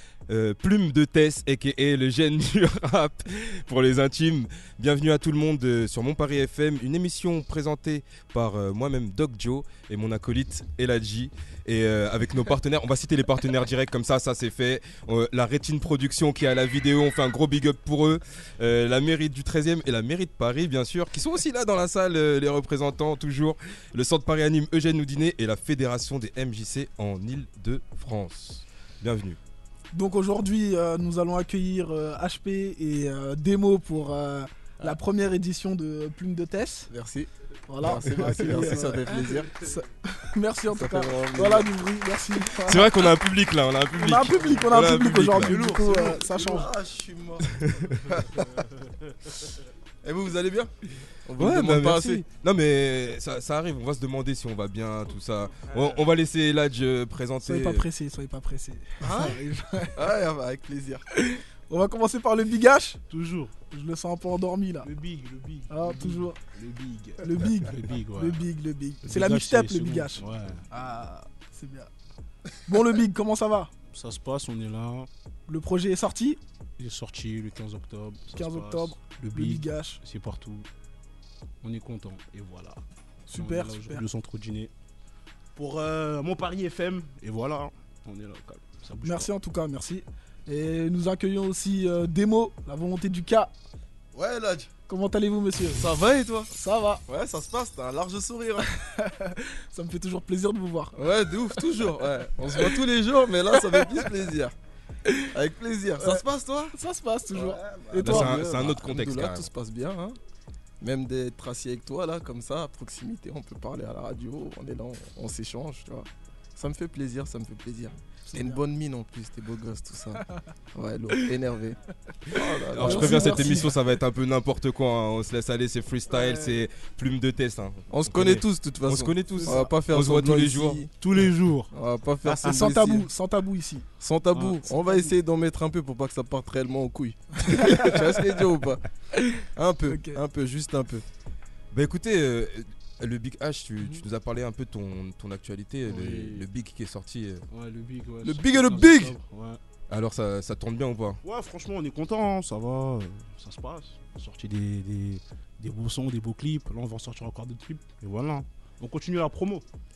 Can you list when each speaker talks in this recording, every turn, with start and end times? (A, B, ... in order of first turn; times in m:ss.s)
0:00.3-0:29.4 A
0:29.9-0:36.9 B
0:36.9-0:37.3 C
0:37.7-0:42.9 B
0:37.8-0:39.5 C
0:40.7-0:41.7 C
0:42.6-0:45.6 A
0:44.0-0:46.7 B
0:45.4-0:46.6 D
0:46.4-0:47.5 C
0:47.5-0:48.1 A
0:48.6-0:48.9 D
0:50.0-0:50.7 C
0:51.2-0:52.2 C
0:51.4-0:57.8 A
0:57.4-1:00.0 B
0:59.0-0:59.4 C
0:59.9-1:01.0 C
1:01.1-1:03.0 B
1:03.1-1:03.5 D
1:03.7-1:04.9 B
1:04.8-1:08.4 D
1:05.7-1:06.4 B
1:07.2-1:11.9 B
1:09.0-1:10.6 D
1:12.6-1:13.7 B
1:13.9-1:15.1 D
1:15.5-1:16.4 B
1:16.8-1:20.6 D
1:18.3-1:20.0 B
1:21.6-1:22.8 D
1:23.3-1:24.0 B
1:23.3-1:24.7 D
1:25.6-1:29.3 D
1:29.0-1:33.5 B
1:34.1-1:34.7 C
1:34.9-1:35.8 B
1:35.7-1:36.5 C
1:36.5-1:37.0 B
1:37.1-1:38.6 C
1:38.8-1:40.9 B
1:40.9-1:44.5 C
1:45.3-1:46.7 C
1:46.0-1:48.4 B
1:47.3-1:50.2 C
1:48.0-1:49.5 A
1:50.8-2:01.8 C
1:58.3-1:58.6 D
2:02.3-2:03.7 C
2:02.7-2:08.2 A
2:02.8-2:03.7 B
2:07.9-2:10.9 C
2:08.1-2:08.4 D
2:08.9-2:10.8 A
2:11.0-2:11.7 D
2:11.7-2:13.1 C
2:12.2-2:12.7 D
2:12.4-2:13.8 B
2:14.0-2:18.8 C
2:14.3-2:15.0 D
2:17.5-2:17.9 B
2:19.1-2:20.2 B
2:19.5-2:21.0 C
2:21.7-2:27.4 A
2:25.8-2:26.4 D
2:27.5-2:29.6 D
2:28.2-2:29.1 C
2:29.9-2:31.2 A
2:31.2-2:39.6 D